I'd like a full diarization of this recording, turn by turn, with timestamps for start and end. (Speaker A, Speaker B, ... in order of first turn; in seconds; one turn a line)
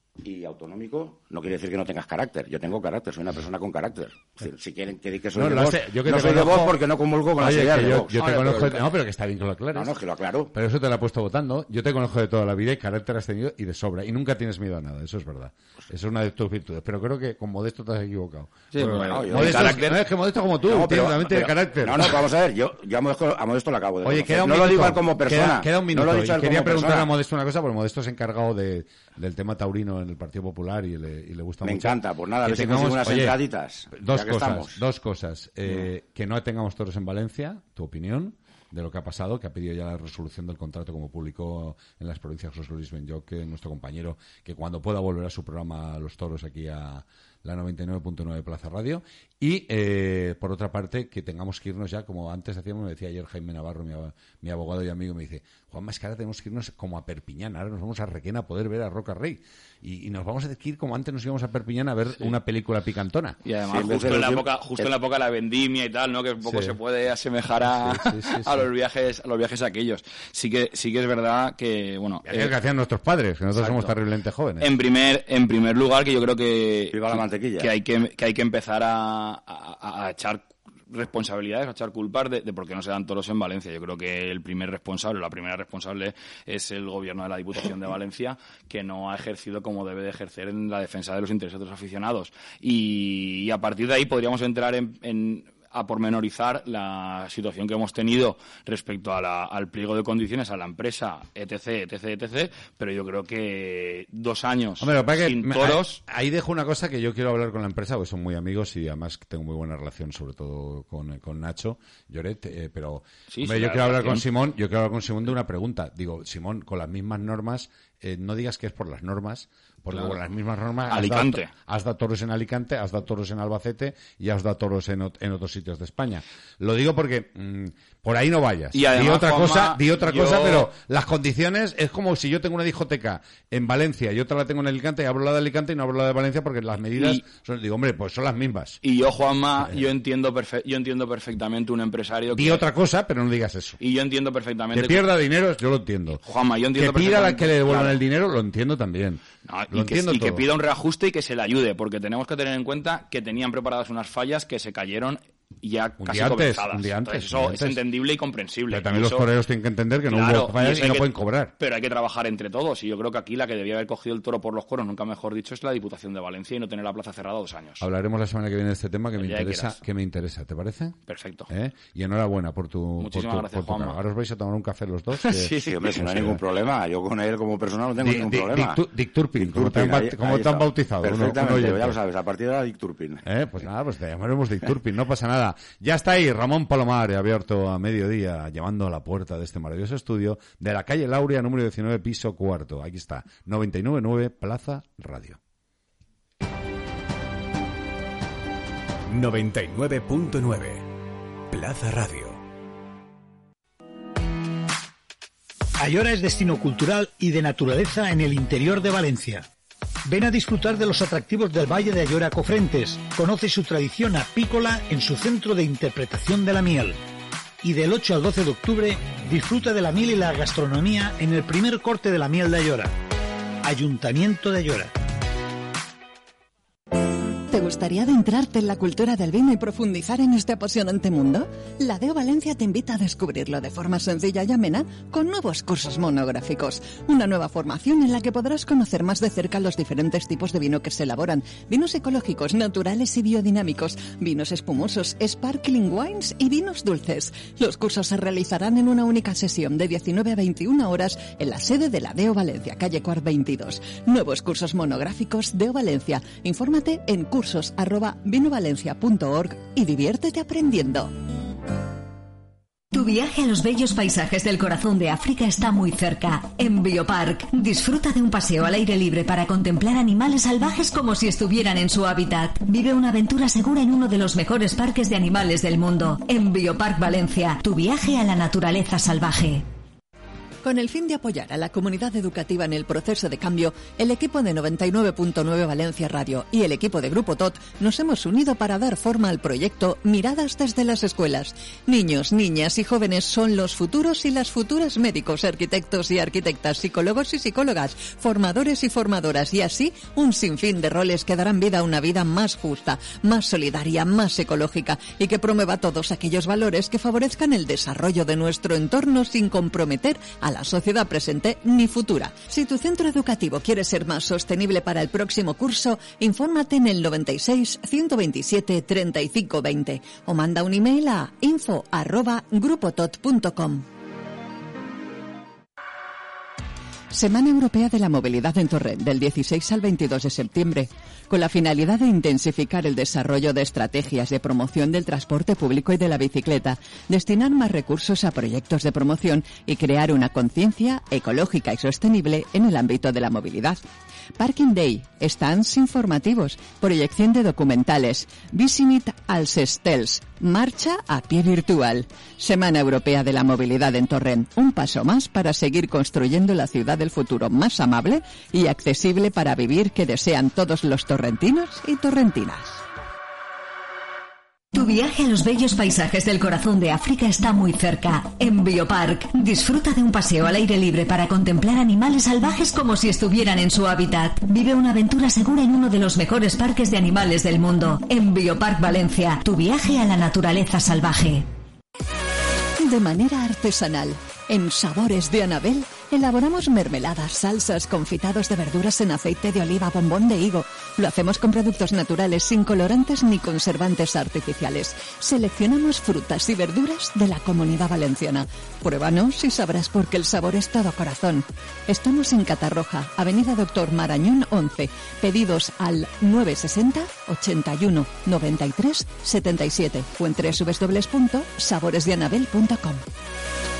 Speaker A: 0.2-8.8
Speaker B: 5.3-6.8
Speaker B: 7.4-9.9
Speaker A: 9.7-10.5
Speaker B: 10.5-22.3
Speaker C: 18.7-19.9
Speaker A: 18.9-19.9
Speaker A: 20.6-27.1
Speaker B: 24.0-33.4
Speaker A: 31.6-34.8
Speaker B: 33.9-63.4
Speaker C: 63.4-72.5
Speaker A: 63.6-64.9
Speaker B: 66.4-66.8
Speaker B: 67.6-68.6
Speaker B: 72.2-74.7
Speaker C: 73.6-73.9
Speaker C: 74.6-106.0
Speaker A: 76.9-77.7
Speaker B: 104.8-138.8
Speaker C: 113.3-114.2
Speaker C: 119.9-120.2
Speaker C: 120.9-121.5
Speaker C: 128.7-130.7
Speaker C: 136.9-137.2
Speaker C: 138.8-142.6
Speaker B: 139.6-139.8
Speaker B: 142.3-143.8
Speaker C: 143.8-145.1
Speaker B: 144.7-146.2
Speaker C: 146.2-148.0
Speaker B: 146.7-150.4
Speaker C: 149.4-159.3
Speaker B: 156.0-157.8
Speaker B: 158.7-161.5
Speaker C: 160.1-167.8
Speaker B: 167.8-171.0
Speaker C: 169.2-169.8
Speaker C: 171.1-171.5
Speaker B: 171.5-176.4
Speaker C: 173.0-174.0
Speaker C: 175.1-175.6
Speaker A: 175.5-178.8
Speaker B: 178.0-182.0
Speaker A: 179.4-183.2
Speaker B: 183.2-195.4
Speaker D: 199.1-200.8
Speaker D: 201.5-202.4
Speaker E: 205.8-209.4
Speaker E: 210.1-217.0
Speaker E: 217.6-222.9
Speaker E: 223.6-224.9
Speaker F: 227.5-261.1
Speaker G: 262.9-279.6
Speaker F: 280.6-323.9
Speaker F: 327.1-343.8
Speaker F: 344.4-362.8
Speaker G: 364.7-381.4
Speaker F: 382.8-413.0